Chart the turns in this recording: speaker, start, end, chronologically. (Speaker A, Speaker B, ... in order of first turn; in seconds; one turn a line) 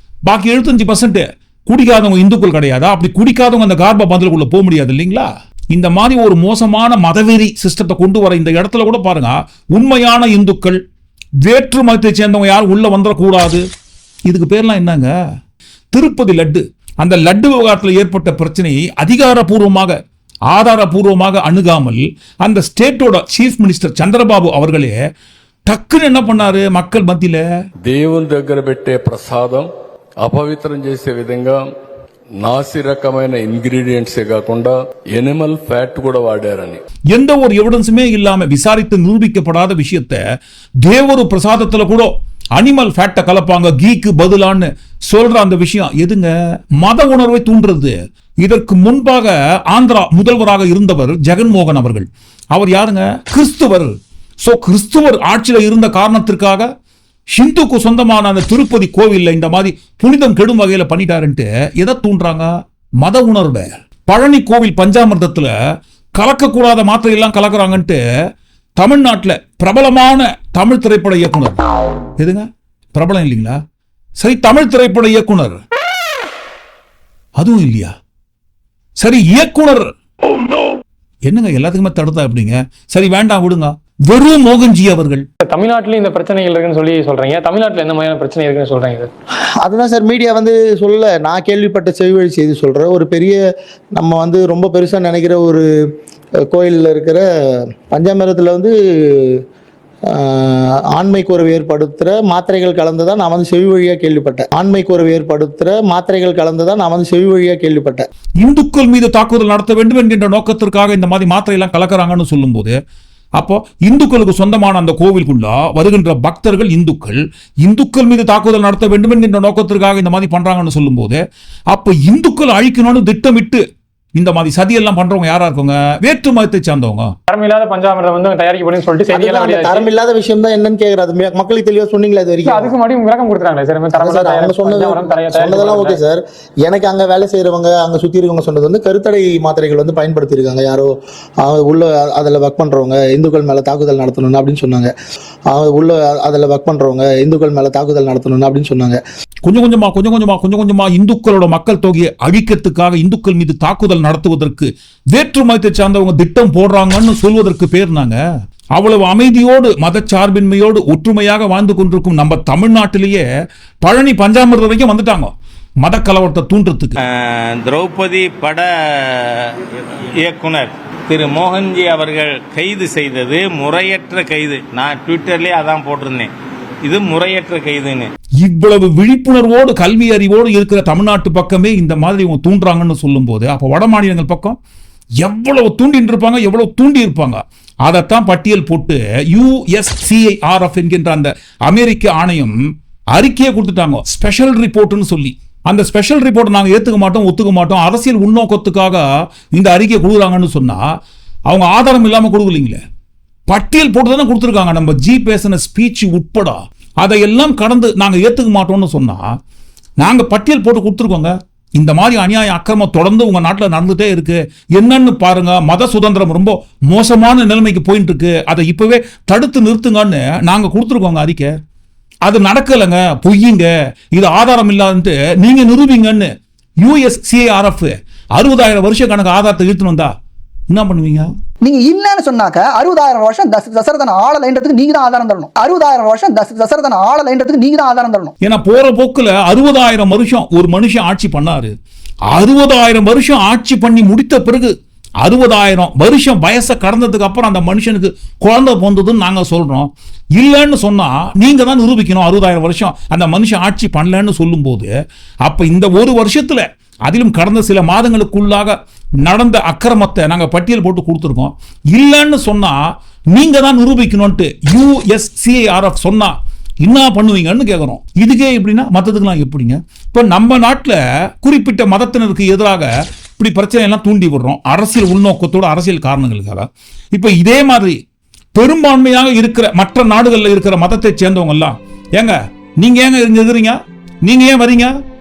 Speaker A: 0.3-10.8
Speaker A: 11.4-13.6
Speaker A: 14.3-15.1
Speaker A: 15.9-19.9
Speaker A: 20.5-24.9
Speaker A: 25.7-27.4
Speaker B: 27.8-29.7
Speaker B: 30.2-31.7
Speaker B: 32.4-36.8
Speaker A: 37.1-40.2
Speaker A: 40.8-56.7
Speaker A: 57.3-62.5
Speaker A: 63.0-65.5
Speaker A: 66.2-68.0
Speaker A: 68.8-71.6
Speaker A: 72.2-73.6
Speaker A: 74.2-75.6
Speaker A: 77.4-77.9
Speaker A: 79.0-79.9
Speaker A: 81.3-85.2
Speaker C: 85.4-89.1
Speaker D: 89.6-93.4
Speaker D: 93.9-95.7
Speaker D: 96.4-99.4
Speaker D: 100.1-108.1
Speaker A: 108.4-112.7
Speaker A: 113.4-123.6
Speaker A: 124.2-127.1
Speaker C: 127.3-129.9
Speaker D: 129.1-132.8
Speaker C: 132.4-136.0
Speaker D: 133.9-144.9
Speaker D: 145.5-149.0
Speaker A: 149.4-158.2
Speaker A: 158.8-163.2
Speaker A: 163.8-167.0
Speaker E: 167.0-169.6
Speaker E: 170.2-176.3
Speaker E: 176.8-178.1
Speaker A: 178.4-184.6
Speaker A: 185.2-192.6
Speaker A: 193.1-200.8
Speaker A: 201.5-202.8
Speaker A: 203.5-209.2
Speaker A: 210.0-221.5
Speaker A: 222.2-230.1
Speaker A: 230.7-231.3
Speaker F: 231.6-238.3
Speaker A: 238.4-241.7
Speaker A: 242.3-254.9
Speaker A: 255.4-262.8
Speaker A: 263.3-278.0
Speaker A: 278.6-285.0